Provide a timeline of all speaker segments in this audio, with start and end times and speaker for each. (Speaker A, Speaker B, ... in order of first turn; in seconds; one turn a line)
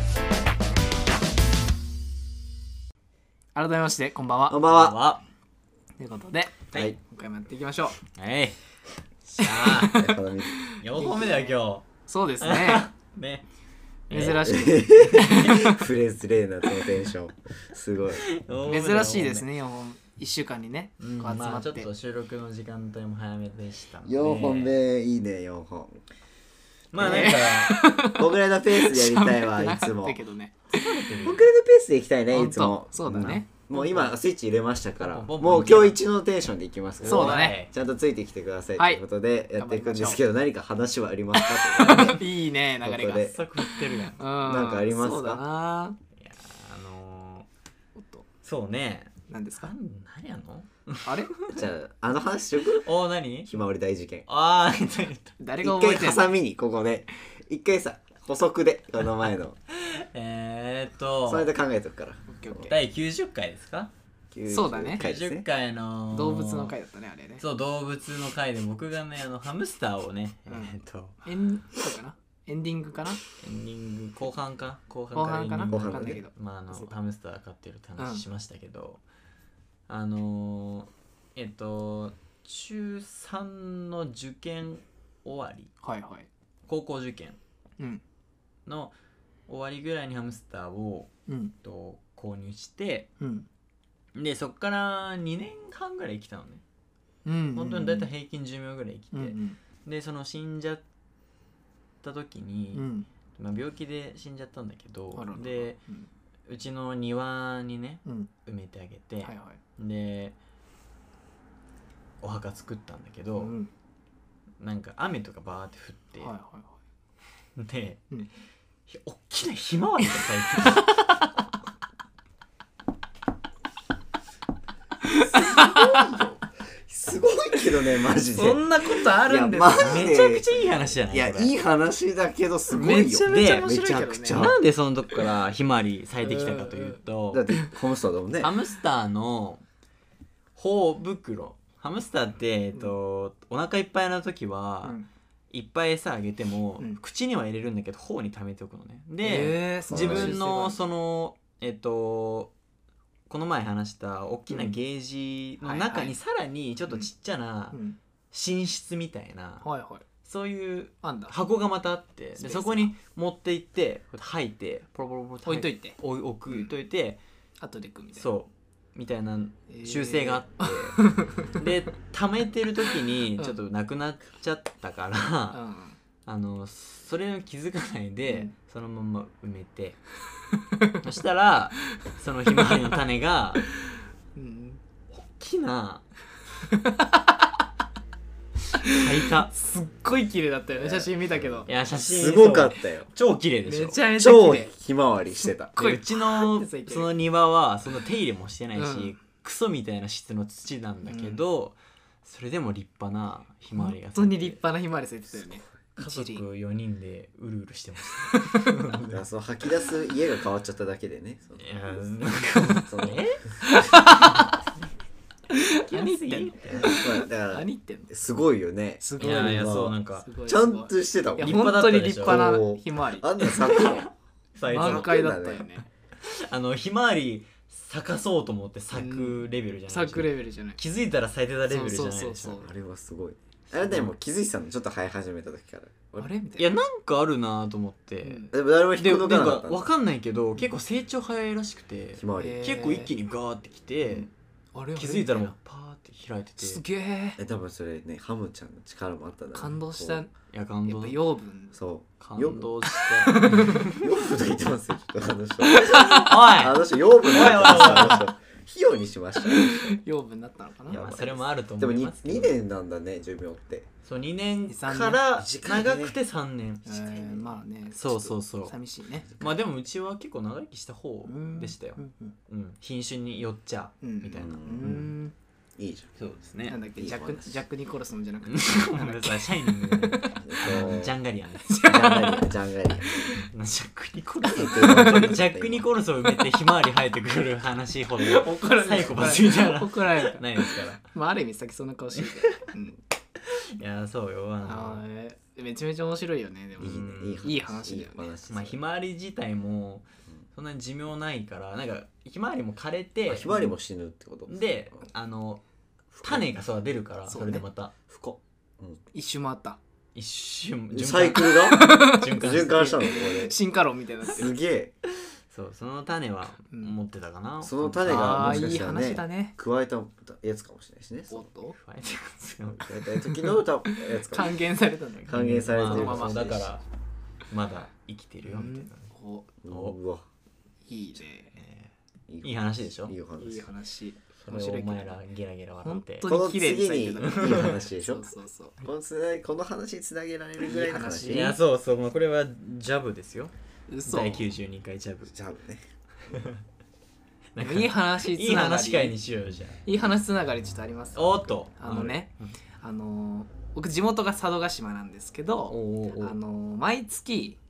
Speaker A: 3.5-4.6
Speaker B: 4.5-5.0
Speaker C: 4.6-5.2
Speaker A: 6.0-8.0
Speaker C: 8.1-8.6
Speaker C: 9.2-10.1
Speaker A: 9.4-12.9
Speaker B: 9.9-10.6
Speaker C: 10.8-11.9
Speaker C: 12.4-13.4
Speaker C: 14.1-15.7
Speaker A: 14.1-15.8
Speaker B: 14.2-18.3
Speaker C: 18.1-19.5
Speaker A: 18.6-21.9
Speaker C: 21.0-24.8
Speaker B: 24.1-26.1
Speaker C: 26.9-27.8
Speaker B: 27.0-27.5
Speaker A: 27.0-31.1
Speaker B: 28.0-30.2
Speaker C: 30.7-31.5
Speaker B: 31.2-42.3
Speaker A: 32.3-34.1
Speaker C: 35.0-36.0
Speaker C: 37.0-37.7
Speaker A: 37.1-37.6
Speaker A: 38.8-40.2
Speaker A: 41.3-46.0
Speaker B: 42.8-43.4
Speaker C: 43.2-44.2
Speaker B: 44.4-45.4
Speaker C: 46.2-47.5
Speaker A: 48.0-48.2
Speaker C: 48.4-51.6
Speaker A: 49.3-49.7
Speaker A: 51.0-51.3
Speaker B: 51.5-52.9
Speaker C: 52.7-53.5
Speaker B: 53.5-54.3
Speaker C: 54.3-55.4
Speaker A: 55.4-56.3
Speaker B: 55.6-59.6
Speaker C: 59.7-61.5
Speaker B: 61.3-62.7
Speaker A: 62.3-62.8
Speaker C: 62.7-63.9
Speaker B: 64.3-65.5
Speaker A: 64.5-65.0
Speaker C: 65.0-66.7
Speaker A: 66.1-67.4
Speaker C: 67.4-71.2
Speaker A: 70.5-73.2
Speaker C: 73.4-79.0
Speaker A: 75.2-76.9
Speaker B: 75.7-76.2
Speaker A: 78.0-78.2
Speaker C: 79.9-85.7
Speaker A: 85.8-86.3
Speaker C: 86.7-87.4
Speaker C: 88.7-89.0
Speaker C: 89.5-93.1
Speaker A: 91.3-91.5
Speaker A: 93.2-93.5
Speaker C: 94.2-96.6
Speaker A: 97.2-98.1
Speaker C: 97.5-100.8
Speaker A: 99.1-99.6
Speaker C: 102.0-105.8
Speaker A: 102.7-103.1
Speaker A: 105.1-106.1
Speaker C: 106.5-110.4
Speaker A: 108.0-108.3
Speaker A: 109.2-109.6
Speaker C: 112.2-113.5
Speaker A: 113.4-113.7
Speaker C: 114.6-116.3
Speaker A: 116.2-116.8
Speaker C: 117.6-118.1
Speaker C: 118.9-121.3
Speaker A: 120.2-121.1
Speaker A: 125.0-126.3
Speaker B: 125.5-126.3
Speaker B: 126.9-134.6
Speaker A: 128.3-130.2
Speaker C: 129.7-131.5
Speaker A: 132.7-134.5
Speaker C: 133.2-133.7
Speaker C: 134.3-137.5
Speaker A: 136.2-137.0
Speaker B: 137.3-138.5
Speaker C: 138.4-139.6
Speaker C: 140.6-145.0
Speaker C: 145.5-152.5
Speaker A: 149.2-150.8
Speaker B: 149.9-150.4
Speaker C: 153.3-157.8
Speaker A: 154.5-154.8
Speaker A: 155.6-156.2
Speaker A: 157.7-158.0
Speaker C: 158.3-159.7
Speaker A: 159.6-160.1
Speaker C: 160.2-167.2
Speaker A: 161.0-161.3
Speaker A: 162.4-162.9
Speaker A: 165.5-166.0
Speaker A: 167.6-168.3
Speaker C: 168.2-175.6
Speaker A: 169.7-171.5
Speaker A: 175.5-176.0
Speaker C: 176.3-180.0
Speaker A: 178.3-178.5
Speaker A: 180.5-181.0
Speaker C: 181.0-183.7
Speaker A: 182.5-182.9
Speaker A: 184.3-184.8
Speaker C: 185.1-186.1
Speaker A: 186.6-187.5
Speaker A: 188.8-191.7
Speaker C: 188.8-189.5
Speaker B: 190.7-193.1
Speaker C: 191.7-194.0
Speaker A: 193.7-194.7
Speaker B: 194.2-195.8
Speaker A: 195.4-197.1
Speaker C: 195.8-204.6
Speaker A: 198.8-199.2
Speaker A: 201.1-201.4
Speaker A: 203.7-206.4
Speaker C: 206.0-209.2
Speaker A: 208.3-209.0
Speaker B: 209.1-212.1
Speaker C: 211.6-214.9
Speaker B: 212.8-213.2
Speaker A: 213.6-214.6
Speaker A: 215.5-218.1
Speaker C: 215.8-217.0
Speaker B: 216.7-224.1
Speaker A: 219.0-224.1
Speaker C: 219.2-220.3
Speaker C: 221.4-222.6
Speaker C: 223.6-224.0
Speaker C: 224.6-225.2
Speaker A: 224.7-225.9
Speaker B: 224.7-225.7
Speaker C: 226.2-232.6
Speaker A: 228.9-230.8
Speaker A: 231.7-232.7
Speaker B: 232.6-236.3
Speaker C: 233.7-234.1
Speaker A: 236.2-236.7
Speaker C: 236.6-244.3
Speaker A: 238.2-238.5
Speaker B: 238.5-239.9
Speaker B: 242.2-242.6
Speaker A: 242.4-243.1
Speaker A: 244.7-245.5
Speaker C: 245.0-246.8
Speaker A: 246.6-247.4
Speaker B: 247.4-250.2
Speaker A: 249.5-250.3
Speaker C: 250.5-251.2
Speaker A: 250.9-251.8
Speaker B: 251.7-252.8
Speaker C: 252.2-254.0
Speaker A: 252.9-254.0
Speaker B: 253.8-260.0
Speaker C: 255.7-258.3
Speaker A: 256.0-256.2
Speaker A: 257.4-258.2
Speaker A: 259.4-261.2
Speaker C: 260.9-262.5
Speaker B: 260.9-263.9
Speaker C: 264.0-268.8
Speaker A: 264.7-265.2
Speaker B: 265.4-266.2
Speaker A: 266.8-269.3
Speaker C: 269.4-275.1
Speaker A: 271.3-272.4
Speaker A: 274.0-275.3
Speaker B: 274.3-275.1
Speaker B: 275.8-276.1
Speaker C: 276.2-276.8
Speaker A: 276.7-280.4
Speaker B: 277.0-277.6
Speaker C: 278.5-281.8
Speaker B: 280.4-281.1
Speaker A: 281.6-283.4
Speaker B: 281.9-283.3
Speaker C: 283.3-291.0
Speaker A: 284.5-285.4
Speaker B: 284.5-285.9
Speaker A: 288.2-293.0
Speaker C: 293.8-295.0
Speaker A: 294.6-298.3
Speaker B: 296.8-298.8
Speaker C: 296.8-297.4
Speaker C: 298.5-303.8
Speaker B: 303.3-304.6
Speaker C: 304.5-305.6
Speaker B: 306.1-306.5
Speaker C: 306.2-307.9
Speaker A: 307.3-307.6
Speaker B: 308.1-309.0
Speaker A: 309.1-309.8
Speaker C: 310.1-313.0
Speaker B: 310.9-313.6
Speaker A: 311.5-314.5
Speaker B: 314.3-314.9
Speaker C: 315.5-318.7
Speaker A: 316.7-317.0
Speaker B: 317.6-321.5
Speaker A: 318.1-319.6
Speaker A: 321.3-321.8
Speaker C: 321.8-323.0
Speaker B: 322.8-324.6
Speaker A: 323.2-326.6
Speaker C: 325.2-326.8
Speaker B: 325.3-326.8
Speaker C: 327.5-329.1
Speaker A: 328.4-329.5
Speaker B: 329.6-330.2
Speaker C: 329.7-330.0
Speaker A: 330.9-331.5
Speaker C: 331.6-331.9
Speaker B: 332.3-333.7
Speaker C: 332.4-333.1
Speaker A: 333.4-335.2
Speaker C: 334.4-336.3
Speaker A: 335.8-338.8
Speaker B: 336.3-341.6
Speaker C: 337.2-337.8
Speaker A: 340.6-341.6
Speaker C: 341.3-343.5
Speaker A: 343.9-344.5
Speaker C: 344.1-345.3
Speaker B: 345.3-345.8
Speaker C: 346.3-346.6
Speaker C: 347.6-349.8
Speaker A: 347.6-349.1
Speaker A: 349.9-357.6
Speaker C: 351.1-352.6
Speaker C: 355.7-356.4